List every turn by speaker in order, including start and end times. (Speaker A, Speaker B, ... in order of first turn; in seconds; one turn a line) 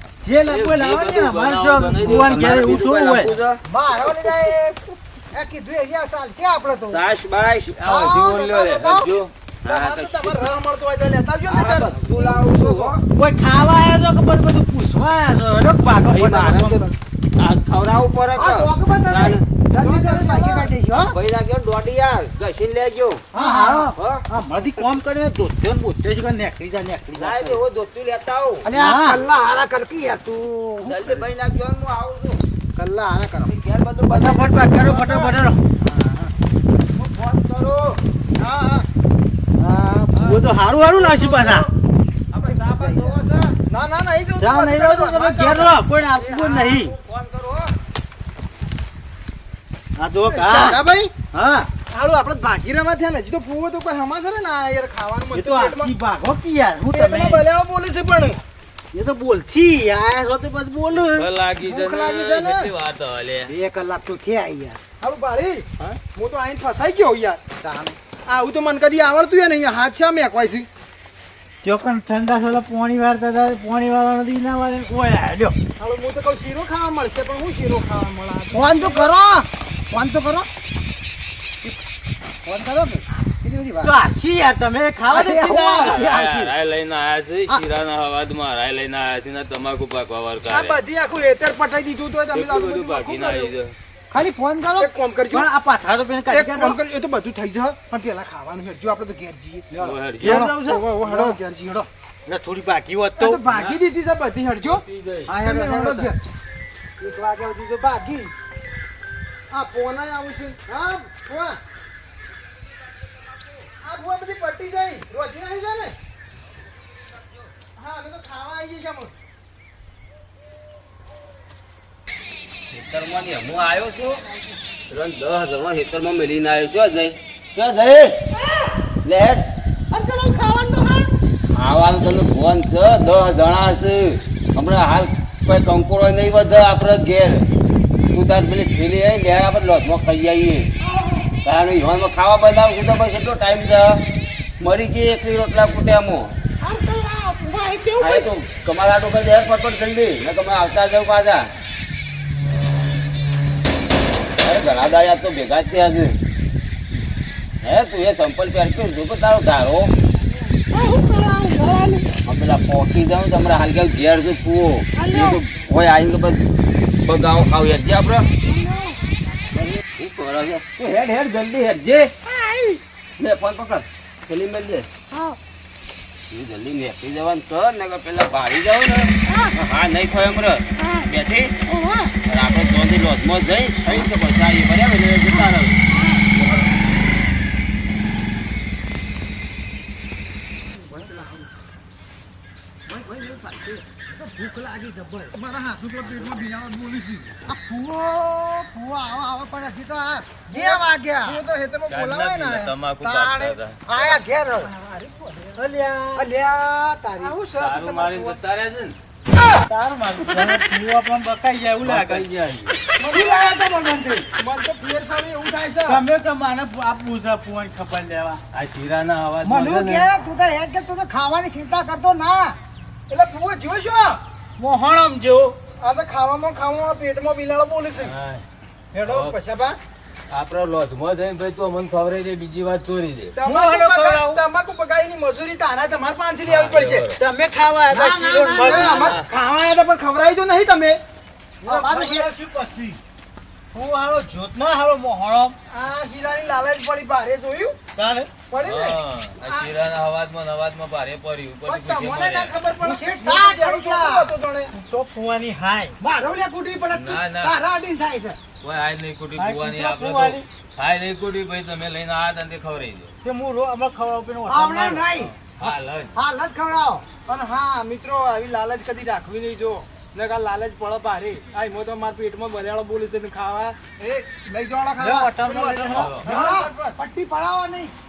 Speaker A: 0.2-3.3
Speaker B: 0.5-2.6
Speaker C: 2.0-3.6
Speaker D: 3.6-7.0
Speaker C: 6.9-7.9
Speaker B: 7.8-9.3
Speaker D: 7.8-9.1
Speaker C: 9.6-10.4
Speaker E: 9.6-13.0
Speaker C: 11.5-13.0
Speaker A: 13.1-16.9
Speaker C: 16.0-19.4
Speaker D: 18.3-21.1
Speaker E: 19.8-20.7
Speaker C: 21.0-23.2
Speaker D: 23.3-23.9
Speaker A: 23.3-27.6
Speaker C: 23.9-24.2
Speaker C: 27.1-28.7
Speaker D: 28.6-31.2
Speaker A: 28.7-29.2
Speaker C: 30.8-32.4
Speaker D: 32.8-33.5
Speaker C: 33.4-35.4
Speaker A: 34.1-35.6
Speaker D: 35.9-36.2
Speaker C: 36.9-38.0
Speaker D: 38.4-38.8
Speaker A: 39.6-41.6
Speaker C: 40.2-41.7
Speaker C: 42.3-43.6
Speaker D: 42.6-43.2
Speaker E: 43.7-45.8
Speaker A: 44.3-46.9
Speaker C: 46.1-47.8
Speaker A: 50.0-50.8
Speaker E: 50.3-51.1
Speaker A: 51.3-51.7
Speaker E: 51.9-55.9
Speaker A: 55.3-57.4
Speaker E: 56.9-58.4
Speaker A: 58.9-61.3
Speaker B: 60.9-63.5
Speaker E: 61.6-62.7
Speaker D: 63.4-64.8
Speaker E: 65.0-67.4
Speaker D: 67.6-68.0
Speaker E: 68.2-70.7
Speaker A: 71.6-75.5
Speaker E: 75.8-79.1
Speaker D: 78.5-80.5
Speaker D: 82.5-83.9
Speaker A: 83.8-86.0
Speaker D: 85.1-86.5
Speaker B: 85.8-90.8
Speaker E: 90.5-93.5
Speaker B: 92.3-93.7
Speaker D: 94.1-94.9
Speaker E: 94.8-95.5
Speaker A: 95.3-96.8
Speaker E: 96.3-101.9
Speaker B: 99.8-100.4
Speaker A: 100.2-101.3
Speaker A: 102.2-103.4
Speaker E: 103.2-104.8
Speaker B: 103.5-103.8
Speaker B: 104.6-105.3
Speaker A: 105.3-106.1
Speaker E: 105.4-106.2
Speaker D: 105.6-105.9
Speaker E: 107.0-108.3
Speaker D: 107.2-108.0
Speaker E: 109.5-111.6
Speaker E: 113.8-116.0
Speaker E: 117.7-119.1
Speaker C: 122.7-124.2
Speaker C: 124.9-128.1
Speaker F: 128.3-128.7
Speaker C: 129.0-129.4
Speaker F: 129.9-131.1
Speaker C: 131.5-137.5
Speaker C: 138.1-140.7
Speaker F: 140.8-141.3
Speaker C: 141.4-144.0
Speaker C: 144.6-146.3
Speaker F: 146.6-148.3
Speaker C: 148.0-151.5
Speaker C: 154.4-156.2
Speaker C: 157.6-159.9
Speaker F: 160.7-162.1
Speaker C: 162.2-166.4
Speaker F: 164.9-165.4
Speaker C: 167.0-168.3
Speaker F: 168.4-169.0
Speaker C: 169.6-172.1
Speaker F: 172.2-172.8
Speaker C: 173.2-174.9
Speaker F: 175.1-175.4
Speaker C: 176.3-181.5
Speaker F: 179.2-179.6
Speaker F: 180.8-181.1
Speaker F: 181.6-182.1
Speaker C: 182.3-185.8
Speaker F: 185.3-186.3
Speaker C: 186.3-186.7
Speaker D: 193.9-195.4
Speaker E: 195.3-197.4
Speaker D: 197.4-201.4
Speaker E: 200.5-202.7
Speaker B: 201.9-203.8
Speaker D: 203.0-204.7
Speaker E: 204.0-205.5
Speaker A: 205.6-206.3
Speaker D: 206.1-207.3
Speaker E: 207.2-208.4
Speaker B: 207.6-208.9
Speaker A: 209.7-212.3
Speaker B: 211.8-212.7
Speaker D: 213.0-214.2
Speaker E: 214.3-216.0
Speaker A: 215.8-218.4
Speaker B: 218.5-220.1
Speaker D: 219.4-222.6
Speaker E: 223.1-224.2
Speaker A: 224.6-225.6
Speaker E: 225.8-228.1
Speaker B: 228.0-228.4
Speaker E: 228.9-229.8
Speaker C: 230.3-233.3
Speaker E: 233.3-237.1
Speaker A: 233.4-234.4
Speaker C: 236.5-237.2
Speaker A: 237.2-239.1
Speaker D: 237.9-239.2
Speaker E: 238.6-241.0
Speaker B: 238.9-239.3
Speaker A: 241.6-243.0
Speaker D: 241.7-242.2
Speaker E: 241.9-242.3
Speaker A: 243.7-245.6
Speaker E: 245.7-247.8
Speaker A: 247.9-248.3
Speaker E: 248.5-249.6
Speaker B: 248.6-252.5
Speaker C: 250.1-251.5
Speaker E: 251.6-254.7
Speaker D: 252.8-254.3
Speaker A: 254.7-256.0
Speaker D: 256.0-258.4
Speaker B: 256.9-257.5
Speaker B: 258.6-262.6
Speaker A: 259.4-260.4
Speaker C: 260.8-263.1
Speaker A: 263.2-265.1
Speaker D: 264.5-265.3
Speaker B: 265.4-266.1
Speaker D: 266.1-267.0
Speaker E: 267.3-277.0
Speaker A: 275.0-276.2
Speaker D: 276.2-277.9